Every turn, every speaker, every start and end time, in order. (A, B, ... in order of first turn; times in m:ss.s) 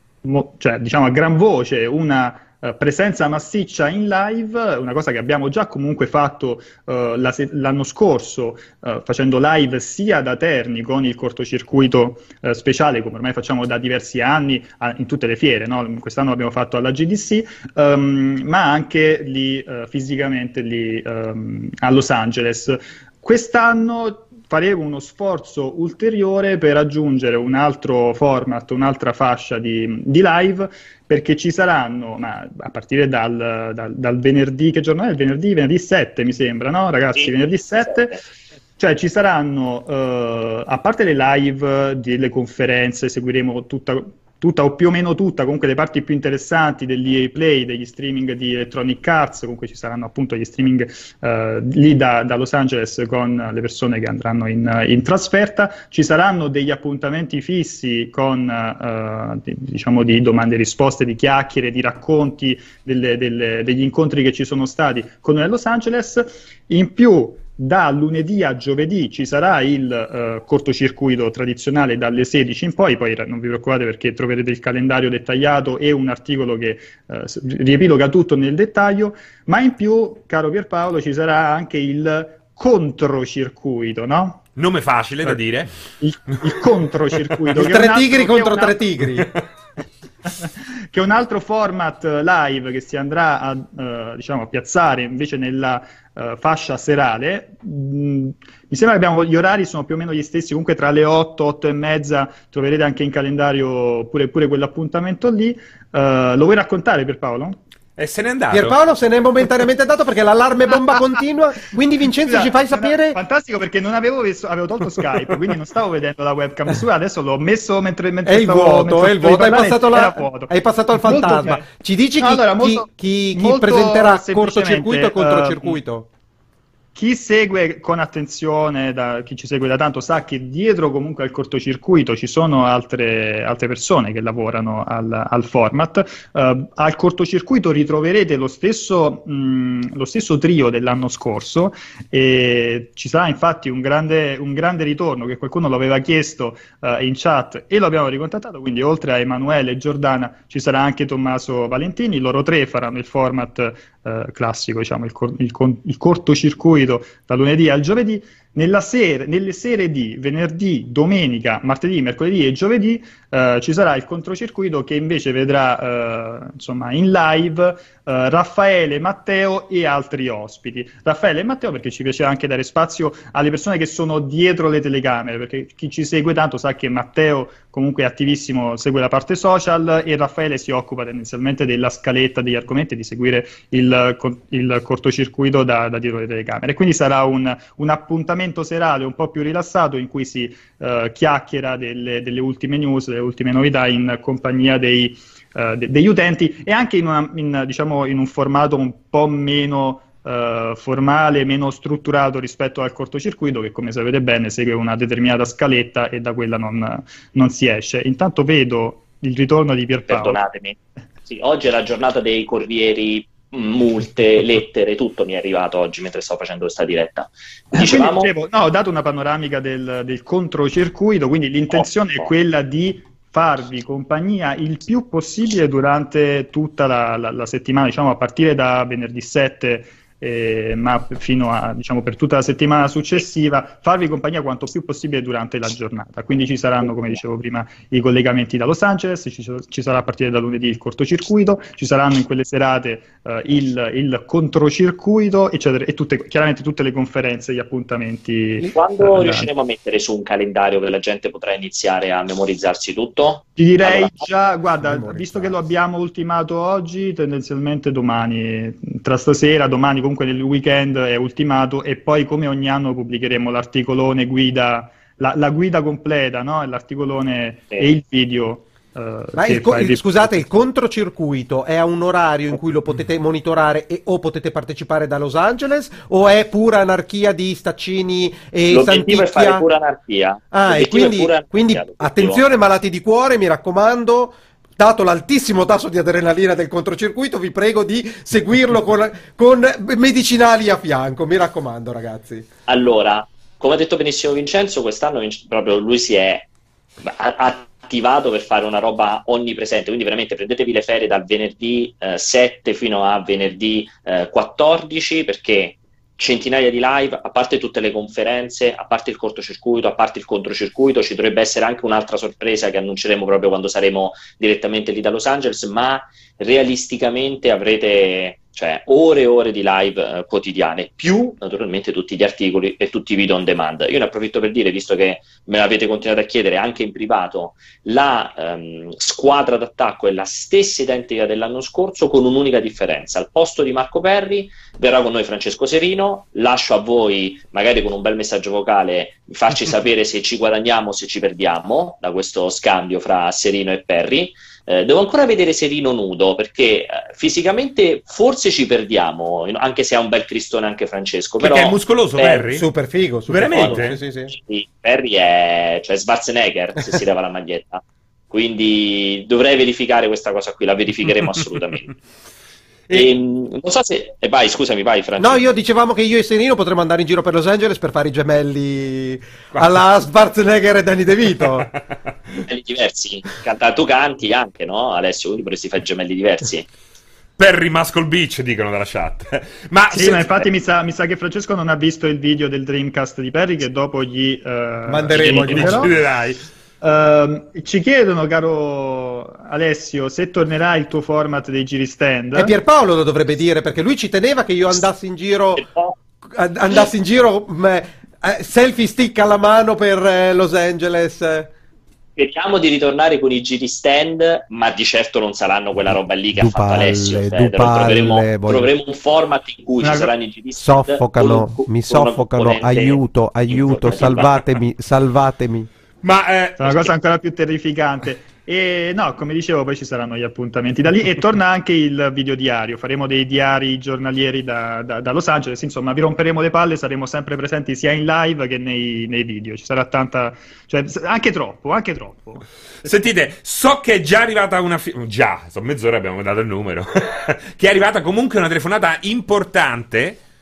0:00.2-0:38.2 A
0:38.8-1:24.4 A
1:24.6-1:25.7 B
1:26.0-1:28.9 A
1:27.6-1:29.3 C
1:30.4-1:47.6 A
1:48.0-1:48.8 B
1:48.5-1:53.2 C
1:50.7-1:51.2 A
1:52.2-2:01.7 A
1:58.2-2:06.1 C
2:02.2-2:05.8 A
2:07.0-3:30.4 A
3:30.1-3:38.3 D
3:37.8-4:09.5 A
3:41.7-3:42.3 D
4:08.6-4:14.2 D
4:13.6-4:30.4 A
4:14.8-4:15.6 C
4:29.4-4:39.6 C
4:38.7-4:42.4 D
4:40.5-4:52.5 C
4:52.7-4:56.5 D
4:57.0-5:52.4 D
5:51.4-5:52.7 B
5:52.5-5:54.3 C
5:53.3-5:54.0 B
5:53.5-6:01.9 D
6:02.9-6:05.5 D
6:05.2-6:11.7 C
6:12.5-6:16.6 D
6:17.4-6:20.4 B
6:19.9-6:25.9 A
6:24.9-6:25.9 C
6:25.1-6:26.4 B
6:26.8-6:32.5 A
6:32.4-6:35.6 C
6:35.6-6:36.0 D
6:36.3-6:41.5 C
6:42.2-6:54.3 D
6:45.9-6:48.7 C
6:49.8-6:50.1 A
6:50.6-6:55.7 C
6:56.0-6:56.9 B
6:56.6-7:12.4 A
7:12.8-7:20.2 B